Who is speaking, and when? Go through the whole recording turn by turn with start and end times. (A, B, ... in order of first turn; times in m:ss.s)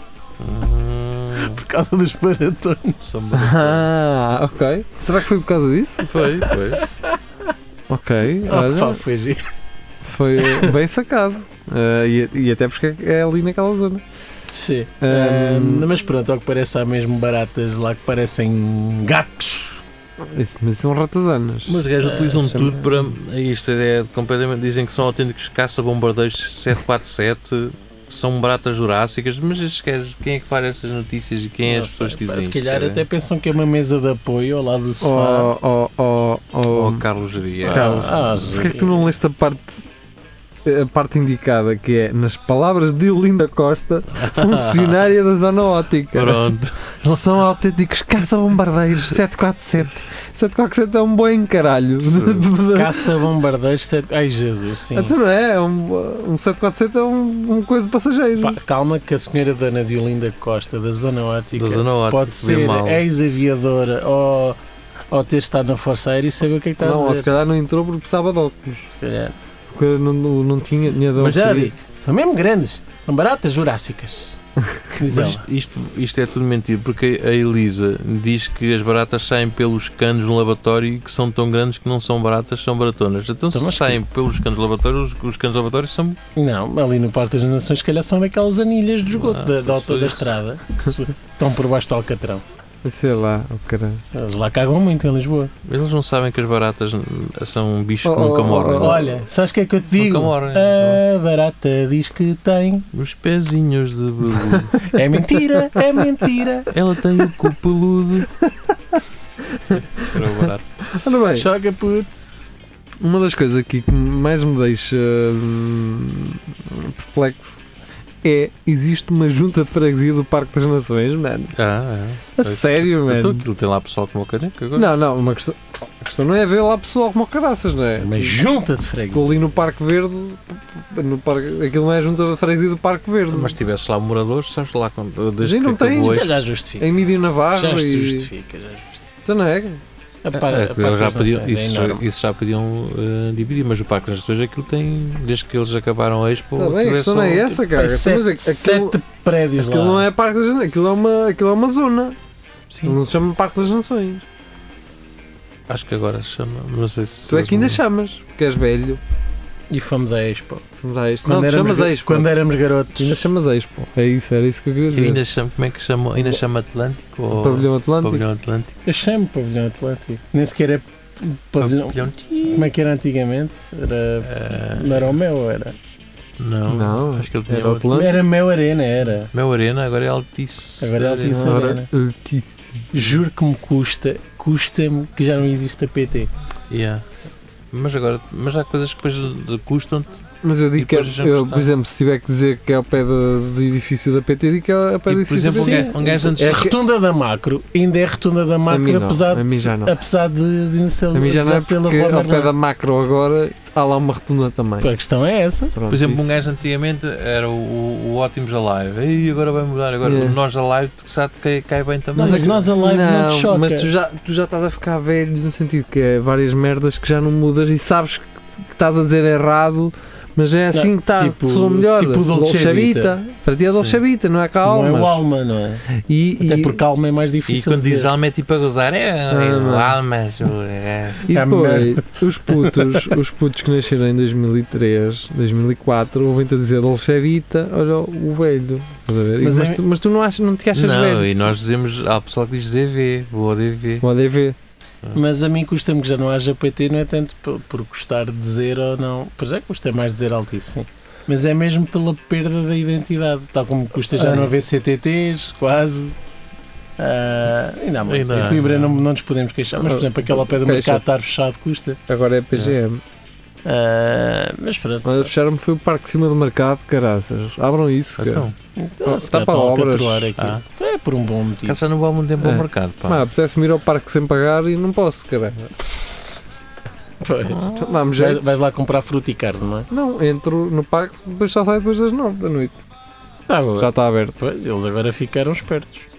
0:00.4-0:01.6 A
0:01.3-0:03.0 B
0:03.0-0:03.9 A
0:03.3-0:06.0 C
0:06.0-0:06.8 A
0:06.2-0:07.2 B
0:07.9-0:09.0 C
0:08.4-0:09.5 B
0:10.0-0:14.0 C
0:10.4-0:10.7 B
0:14.5-0:19.8 B
0:15.0-0:15.9 C
0:20.2-0:23.1 C
0:21.7-0:33.0 A
0:22.0-0:22.5 B
0:31.6-0:35.5 B
0:35.0-0:37.0 C
0:36.7-0:38.7 A
0:37.6-0:39.1 B
0:37.6-0:39.8 C
0:40.6-0:53.2 C
0:44.1-0:45.0 A
0:46.1-0:47.4 A
0:52.1-0:52.5 A
0:52.7-0:55.1 B
0:54.9-0:58.6 C
0:58.4-1:04.6 B
1:01.6-1:03.0 A
1:05.1-1:07.3 B
1:06.8-1:08.9 C
1:08.9-1:09.4 B
1:09.7-1:11.7 C
1:11.1-1:14.4 B
1:15.0-1:15.4 B
1:15.0-1:26.2 A
1:23.5-1:24.0 B
1:26.3-1:32.4 B
1:29.1-1:30.4 A
1:32.8-1:34.0 C
1:34.1-1:35.5 B
1:35.6-1:39.1 A
1:38.0-1:39.1 C
1:38.8-1:42.9 B
1:40.0-1:41.0 A
1:42.9-1:44.9 A
1:44.8-1:46.7 B
1:46.7-1:48.3 A
1:48.4-1:51.5 C
1:50.0-1:50.7 A
1:51.3-1:52.5 B
1:53.0-1:57.6 C
1:58.2-2:01.5 C
2:01.5-2:04.9 A
2:02.4-2:03.4 C
2:04.8-2:08.4 C
2:08.0-2:09.3 B
2:09.1-2:13.6 C
2:13.3-2:16.3 A
2:15.4-2:16.3 C
2:16.0-2:16.9 B
2:16.8-2:18.3 C
2:17.5-2:19.0 B
2:19.2-2:19.8 C
2:20.2-2:22.0 B
2:20.3-2:27.5 A
2:26.6-2:29.0 C
2:27.5-2:30.0 B
2:29.6-2:32.2 C
2:32.7-2:33.0 A
2:32.8-2:34.2 C
2:35.7-2:37.8 A
2:37.3-2:39.0 C
2:39.7-2:40.6 B
2:40.8-2:42.3 C
2:41.2-2:43.3 B
2:43.0-2:45.2 C
2:44.9-2:48.7 A
2:47.3-2:48.2 C
2:48.8-2:55.8 B
2:51.6-2:52.7 A
2:54.2-2:55.1 A
2:56.4-2:58.0 A
2:56.7-2:58.2 C
2:57.9-2:59.3 B
2:59.3-3:01.4 A
3:00.8-3:01.9 B
3:01.3-3:02.9 C
3:02.9-3:06.3 B
3:06.7-3:07.0 A
3:07.7-3:10.2 A
3:10.4-3:16.8 C
3:10.7-3:11.7 A
3:15.0-3:16.7 A
3:15.5-3:22.5 B
3:18.7-3:20.0 C
3:21.1-3:24.9 C
3:24.8-3:25.7 B
3:25.7-3:26.3 C
3:25.9-3:32.6 A
3:30.0-3:30.4 C
3:32.1-3:33.9 B
3:32.2-3:45.2 C
3:40.7-3:43.2 B
3:44.6-3:45.8 B
3:45.9-3:46.8 C
3:46.4-3:48.1 B
3:47.5-3:51.2 A
3:49.3-3:50.0 C
3:51.2-4:01.5 C
3:51.3-3:53.1 B
3:59.4-3:59.8 B
4:00.7-4:04.1 A
4:04.0-4:04.6 C
4:05.1-4:16.2 B
4:14.2-4:14.5 C
4:14.2-4:14.4 A
4:17.0-4:22.0 B
4:18.1-4:19.0 A
4:19.8-4:21.0 C
4:22.1-4:23.0 C
4:23.6-4:25.3 B
4:25.0-4:28.5 C
4:28.2-4:28.5 A
4:28.8-4:31.8 B
4:29.0-4:30.3 C
4:30.4-4:30.6 A
4:31.6-4:33.2 A
4:32.4-4:35.7 C
4:37.2-4:39.9 B
4:37.5-4:37.9 A
4:37.7-4:38.4 C
4:39.9-4:42.8 C
4:43.5-4:46.1 B
4:43.8-4:44.4 C